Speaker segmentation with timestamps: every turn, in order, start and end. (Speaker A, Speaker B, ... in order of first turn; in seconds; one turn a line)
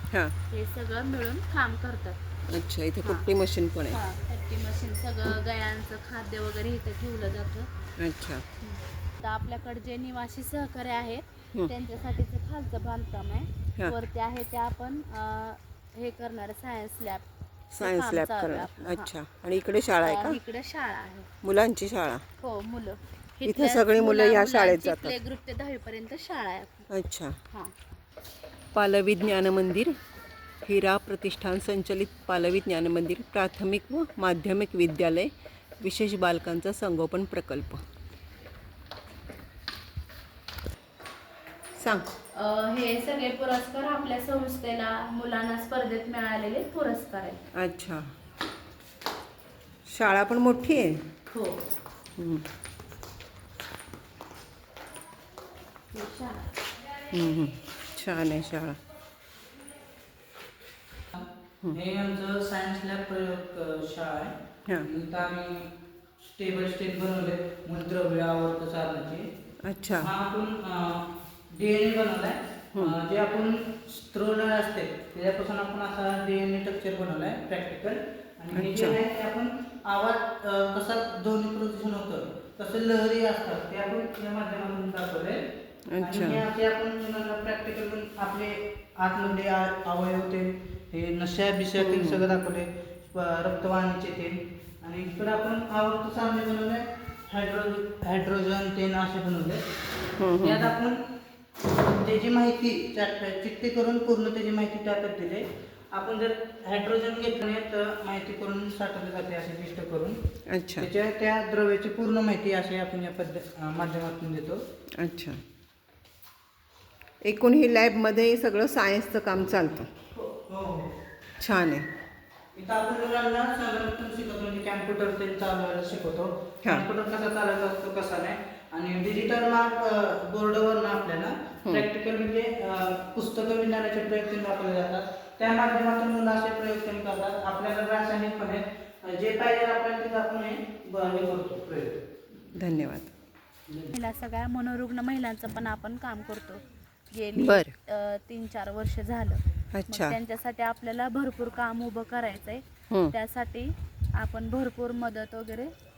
Speaker A: 0.5-2.2
Speaker B: 2.5-4.0
Speaker A: 3.0-3.3
Speaker A: 3.9-7.7
Speaker B: 8.0-8.4
Speaker A: 8.6-17.2
Speaker B: 17.7-20.4
Speaker A: 17.8-19.1
Speaker A: 20.0-21.3
Speaker B: 21.4-22.2
Speaker A: 22.4-26.9
Speaker B: 23.4-25.1
Speaker B: 26.9-27.4
Speaker B: 28.7-29.9
Speaker B: 30.6-37.8
Speaker B: 41.8-42.1
Speaker A: 42.4-47.4
Speaker B: 47.5-48.0
Speaker B: 49.9-51.0
Speaker A: 51.3-51.6
Speaker B: 52.2-52.5
Speaker A: 55.9-56.5
Speaker B: 57.1-58.8
Speaker C: 61.1-65.7
Speaker C: 66.2-69.2
Speaker B: 69.6-70.1
Speaker C: 70.0-85.4
Speaker B: 78.5-79.0
Speaker B: 85.9-86.4
Speaker C: 86.0-99.6
Speaker B: 91.8-92.2
Speaker B: 100.2-100.7
Speaker C: 100.4-101.0
Speaker C: 101.8-110.2
Speaker B: 110.5-110.9
Speaker C: 110.8-114.6
Speaker B: 115.0-115.4
Speaker B: 117.2-119.9
Speaker C: 120.2-120.9
Speaker B: 121.4-121.9
Speaker C: 122.5-142.0
Speaker B: 142.6-143.1
Speaker C: 143.7-143.9
Speaker A: 144.0-146.6
Speaker A: 147.1-155.7
Speaker B: 147.4-147.7
Speaker B: 149.7-150.2